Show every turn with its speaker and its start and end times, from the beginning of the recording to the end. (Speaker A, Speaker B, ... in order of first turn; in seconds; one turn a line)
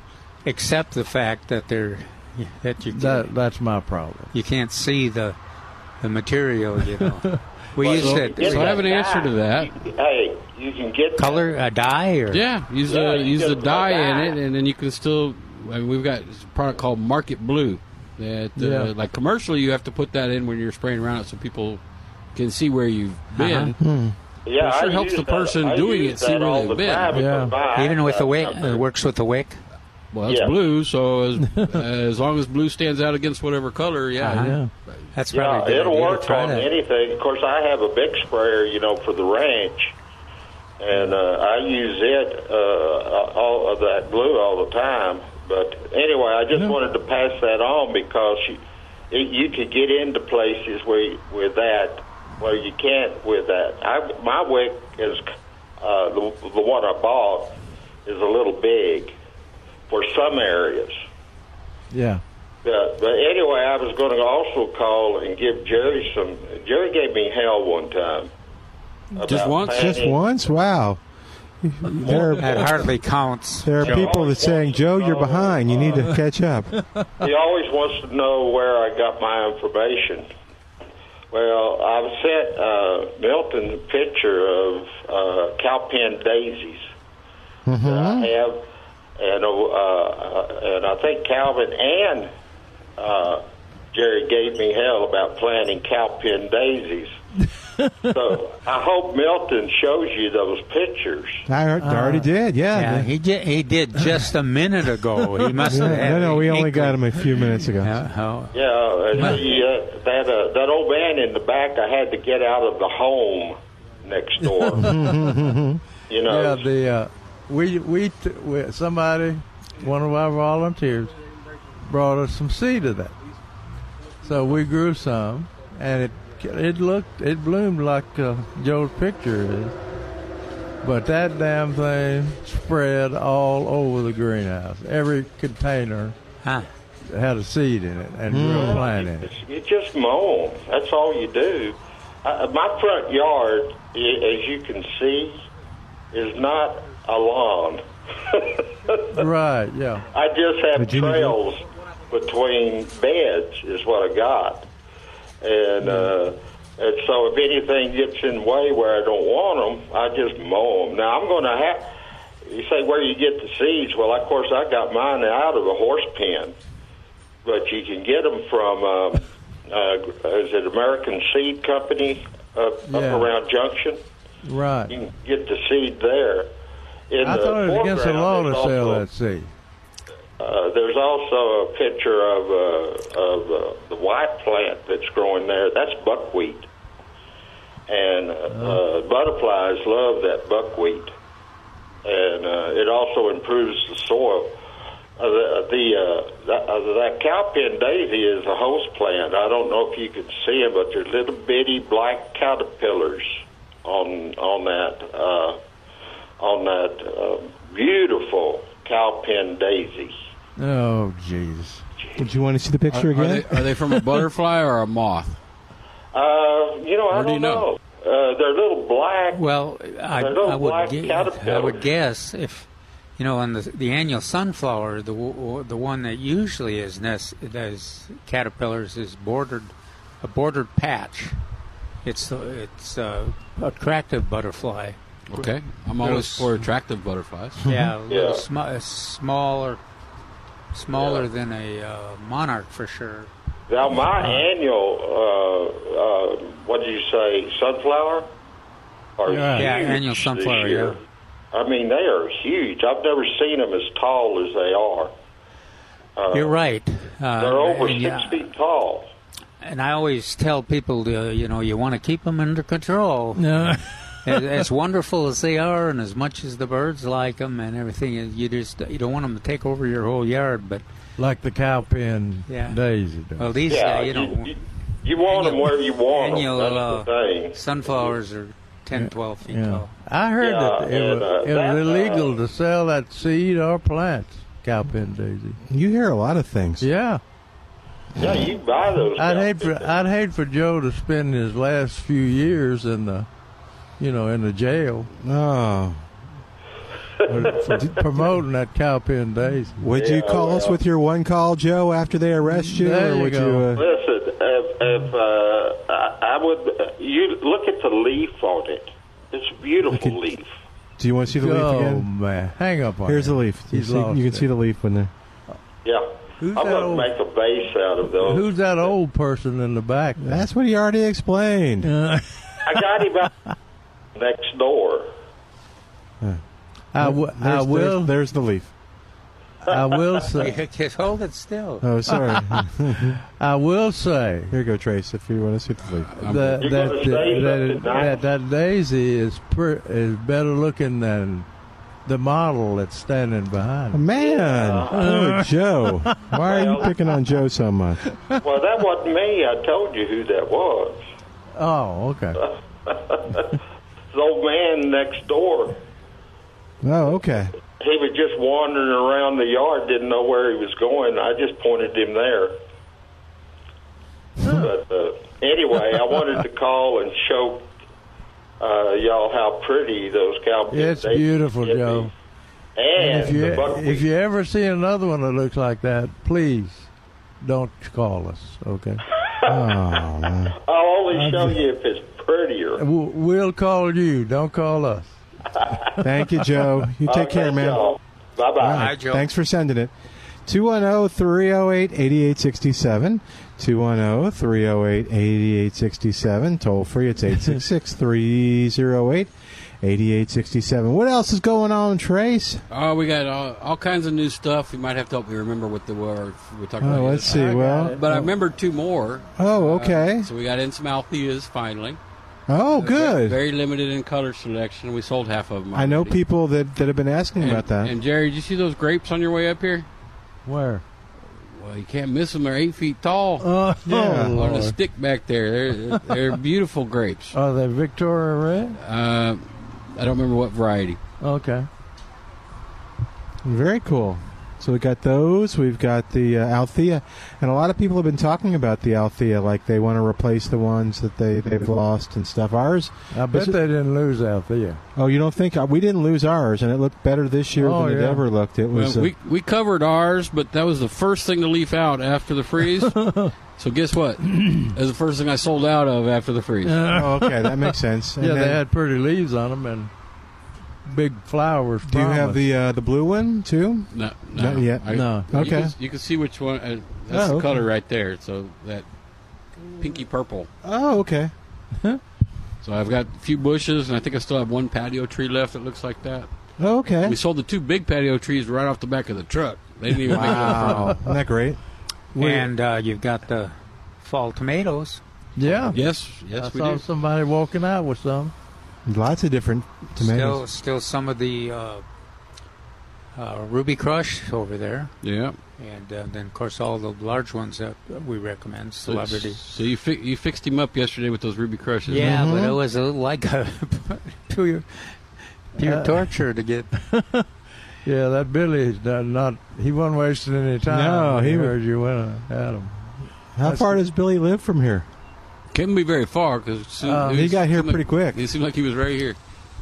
Speaker A: 0.5-3.3
Speaker B: 2.9-4.3
Speaker A: 4.3-5.4
Speaker A: 6.0-8.8
Speaker C: 7.8-11.5
Speaker D: 8.0-9.7
Speaker A: 11.2-12.4
Speaker D: 12.3-21.8
Speaker C: 12.8-14.4
Speaker B: 18.6-18.9
Speaker D: 22.4-23.8
Speaker A: 23.3-23.7
Speaker E: 23.8-24.1
Speaker C: 24.4-28.8
Speaker D: 24.6-27.3
Speaker B: 27.1-27.6
Speaker A: 27.8-29.6
Speaker D: 30.1-35.0
Speaker C: 30.3-30.6
Speaker B: 31.5-31.8
Speaker A: 34.2-34.6
Speaker B: 34.3-34.7
Speaker A: 35.1-36.7
Speaker C: 35.3-39.9
Speaker C: 40.8-55.3
Speaker C: 55.8-59.1
Speaker C: 59.9-61.0
Speaker B: 61.9-62.2
Speaker C: 62.6-68.3
Speaker C: 69.2-70.2
Speaker D: 69.2-70.0
Speaker E: 69.5-71.0
Speaker E: 71.6-72.7
Speaker A: 72.1-74.1
Speaker E: 73.7-76.8
Speaker C: 73.8-76.1
Speaker C: 77.2-80.3
Speaker C: 81.3-86.9
Speaker E: 87.7-88.3
Speaker C: 87.8-88.6
Speaker C: 89.2-92.3
Speaker C: 93.0-97.2
Speaker B: 97.8-98.0
Speaker C: 98.1-101.5
Speaker E: 101.5-103.1
Speaker B: 101.8-102.3
Speaker A: 102.7-107.2
Speaker B: 105.6-106.0
Speaker E: 105.7-108.0
Speaker A: 107.8-108.5
Speaker C: 108.5-115.1
Speaker A: 109.2-109.4
Speaker B: 114.4-115.4
Speaker E: 114.8-115.8
Speaker C: 116.1-116.7
Speaker B: 116.3-121.1
Speaker B: 121.8-123.1
Speaker B: 124.2-129.7
Speaker B: 130.8-136.2
Speaker A: 136.4-136.7
Speaker B: 137.1-139.3
Speaker E: 138.3-138.8
Speaker C: 138.5-145.4
Speaker C: 146.1-149.1
Speaker B: 149.1-150.1
Speaker C: 150.1-154.7
Speaker E: 150.8-151.4
Speaker C: 155.4-161.9
Speaker C: 162.4-166.5
Speaker C: 167.4-174.0
Speaker B: 172.9-173.3
Speaker B: 174.4-175.0
Speaker C: 174.9-176.5
Speaker C: 177.1-179.1
Speaker B: 177.2-179.5
Speaker C: 180.4-186.7
Speaker C: 187.9-191.1
Speaker B: 188.5-188.8
Speaker C: 192.1-194.6
Speaker C: 195.2-205.6
Speaker C: 206.4-210.2
Speaker B: 210.6-211.8
Speaker E: 212.2-213.6
Speaker D: 212.9-215.4
Speaker C: 216.1-219.4
Speaker D: 217.1-217.7
Speaker A: 219.3-231.4
Speaker C: 220.1-221.9
Speaker A: 232.0-236.6
Speaker D: 235.3-237.7
Speaker A: 237.7-239.8
Speaker C: 238.1-238.4
Speaker A: 240.7-243.3
Speaker C: 240.9-241.3
Speaker C: 243.7-248.3
Speaker C: 249.2-251.0
Speaker B: 249.3-249.7
Speaker A: 249.6-251.0
Speaker C: 251.5-255.1
Speaker C: 256.2-256.6
Speaker A: 256.3-258.5
Speaker C: 257.4-259.1
Speaker A: 259.6-263.6
Speaker B: 263.4-264.3
Speaker A: 264.2-270.8
Speaker B: 271.2-273.6
Speaker A: 272.5-272.8
Speaker A: 273.4-274.5
Speaker C: 273.7-278.2
Speaker A: 275.3-279.9
Speaker B: 278.9-285.6
Speaker C: 280.4-282.4
Speaker E: 285.7-286.9
Speaker B: 286.8-287.2
Speaker C: 288.2-289.9
Speaker B: 289.2-293.3
Speaker B: 294.0-295.1
Speaker E: 295.2-296.0
Speaker B: 297.3-299.8
Speaker E: 299.8-303.8
Speaker C: 299.9-300.8
Speaker B: 302.5-303.8
Speaker C: 303.8-310.5
Speaker E: 311.0-312.1
Speaker B: 311.4-314.5
Speaker E: 313.1-315.1
Speaker C: 315.9-318.9
Speaker B: 316.4-317.1
Speaker B: 318.1-320.4
Speaker E: 320.2-321.9
Speaker B: 321.8-322.6
Speaker C: 322.6-323.3
Speaker C: 324.1-325.1
Speaker B: 326.9-328.1
Speaker E: 327.0-328.7
Speaker B: 329.7-330.6
Speaker A: 330.4-331.9
Speaker E: 331.8-333.2
Speaker B: 332.1-334.6
Speaker E: 334.5-336.2
Speaker D: 335.9-336.6
Speaker B: 336.2-341.5
Speaker C: 336.6-338.2
Speaker B: 342.1-344.0
Speaker E: 343.9-348.1
Speaker C: 344.1-345.1
Speaker B: 344.9-346.8
Speaker C: 346.5-346.9
Speaker C: 348.4-351.0
Speaker B: 351.5-352.4
Speaker C: 352.9-353.6
Speaker C: 354.1-355.8
Speaker E: 356.8-357.5
Speaker C: 357.8-362.5
Speaker B: 364.4-364.7
Speaker C: 364.5-367.7
Speaker C: 368.6-372.1
Speaker B: 370.7-372.1
Speaker C: 372.8-374.1
Speaker B: 373.0-376.9
Speaker B: 377.4-379.0
Speaker C: 379.4-382.8
Speaker E: 379.5-380.6
Speaker B: 381.1-381.6
Speaker B: 382.8-385.1
Speaker E: 386.0-387.9
Speaker C: 387.1-388.9
Speaker E: 388.6-389.9
Speaker A: 388.6-389.3
Speaker E: 390.5-399.3
Speaker E: 399.8-402.6
Speaker D: 402.7-412.0
Speaker E: 406.8-408.3
Speaker B: 407.2-408.2
Speaker E: 409.4-410.3
Speaker E: 412.5-413.4
Speaker D: 412.8-416.2
Speaker E: 415.7-417.9
Speaker D: 417.4-419.9
Speaker B: 420.5-420.8
Speaker D: 421.5-423.5
Speaker B: 423.4-424.8
Speaker E: 423.9-424.5
Speaker D: 424.4-427.4
Speaker B: 425.9-426.4
Speaker B: 427.3-428.8
Speaker D: 428.8-431.0
Speaker B: 431.2-431.7
Speaker E: 433.4-443.6
Speaker B: 443.1-444.8
Speaker E: 445.0-449.1
Speaker B: 447.6-448.2
Speaker D: 448.7-452.9
Speaker B: 452.8-453.3
Speaker D: 453.6-456.8
Speaker B: 454.3-454.7
Speaker B: 456.6-459.9
Speaker E: 456.9-458.6
Speaker B: 460.9-462.4
Speaker E: 461.9-465.7
Speaker D: 463.9-468.9
Speaker B: 464.9-465.3
Speaker E: 467.1-467.7
Speaker D: 469.7-470.5
Speaker E: 470.6-471.3
Speaker D: 472.6-476.3
Speaker E: 476.6-477.2
Speaker D: 477.0-480.9
Speaker E: 480.1-481.6
Speaker B: 480.1-481.2
Speaker B: 482.1-482.5
Speaker A: 482.2-485.0
Speaker B: 485.4-488.3
Speaker D: 485.7-486.8
Speaker E: 488.9-490.4
Speaker A: 490.0-491.8
Speaker A: 493.1-494.9
Speaker D: 495.0-495.4
Speaker A: 495.6-499.4
Speaker D: 498.9-502.1
Speaker A: 501.9-505.0
Speaker E: 502.0-502.6
Speaker A: 505.6-506.7
Speaker B: 505.6-506.1
Speaker B: 506.7-507.2
Speaker B: 507.9-512.7
Speaker E: 510.7-511.6
Speaker E: 513.4-514.9
Speaker B: 513.4-513.8
Speaker D: 515.5-519.2
Speaker B: 516.8-517.3
Speaker E: 517.0-518.2